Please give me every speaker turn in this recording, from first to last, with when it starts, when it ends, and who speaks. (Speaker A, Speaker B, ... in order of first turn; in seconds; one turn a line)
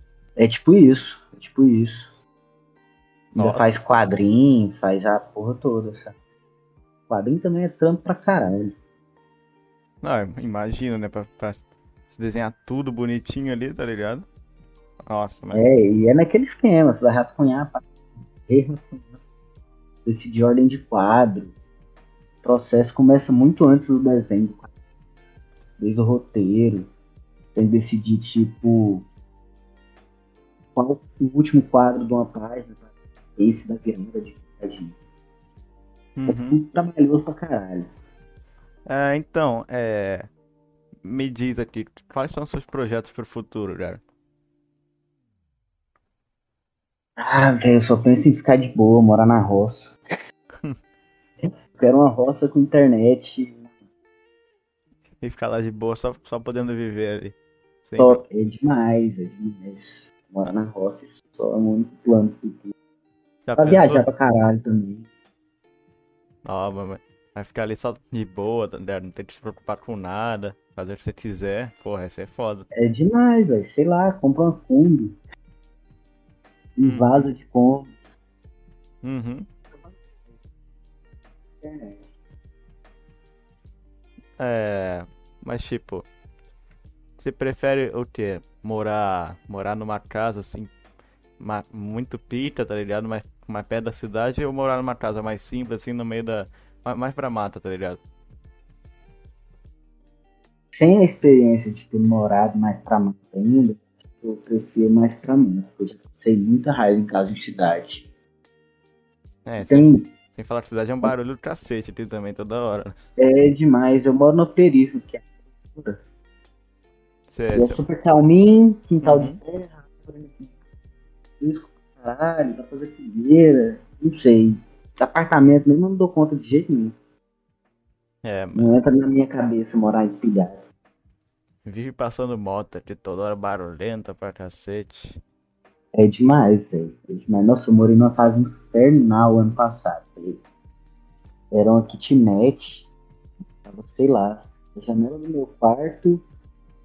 Speaker A: 0.4-2.1
Speaker A: 3.3-6.1
Speaker B: 3.4-3.8
Speaker A: 7.1-8.7
Speaker B: 10.0-14.2
Speaker B: 15.1-15.6
Speaker A: 15.5-17.9
Speaker A: 18.4-19.1
Speaker A: 20.1-21.5
Speaker A: 22.4-24.7
Speaker A: 25.8-26.9
Speaker A: 27.6-29.1
Speaker A: 30.8-32.8
Speaker A: 33.4-35.0
Speaker B: 36.2-36.6
Speaker A: 36.3-37.9
Speaker B: 38.9-40.3
Speaker B: 41.0-44.0
Speaker A: 47.2-50.0
Speaker A: 51.8-53.7
Speaker B: 55.2-58.2
Speaker A: 58.0-62.7
Speaker B: 63.5-64.1
Speaker A: 63.6-65.1
Speaker B: 66.5-72.7
Speaker A: 72.8-75.2
Speaker A: 76.8-77.9
Speaker B: 76.8-77.2
Speaker B: 79.0-79.5
Speaker A: 81.6-82.0
Speaker B: 84.4-86.1
Speaker B: 87.2-90.7
Speaker B: 91.4-98.0
Speaker A: 100.7-108.1
Speaker B: 109.5-113.0
Speaker A: 109.6-110.1
Speaker A: 113.2-116.0
Speaker B: 117.3-117.8
Speaker A: 117.5-120.5
Speaker B: 119.0-119.4
Speaker A: 121.4-127.0
Speaker B: 128.2-128.8
Speaker A: 128.6-130.6
Speaker B: 131.7-135.2
Speaker A: 135.9-140.4
Speaker A: 141.5-142.9
Speaker A: 143.6-146.2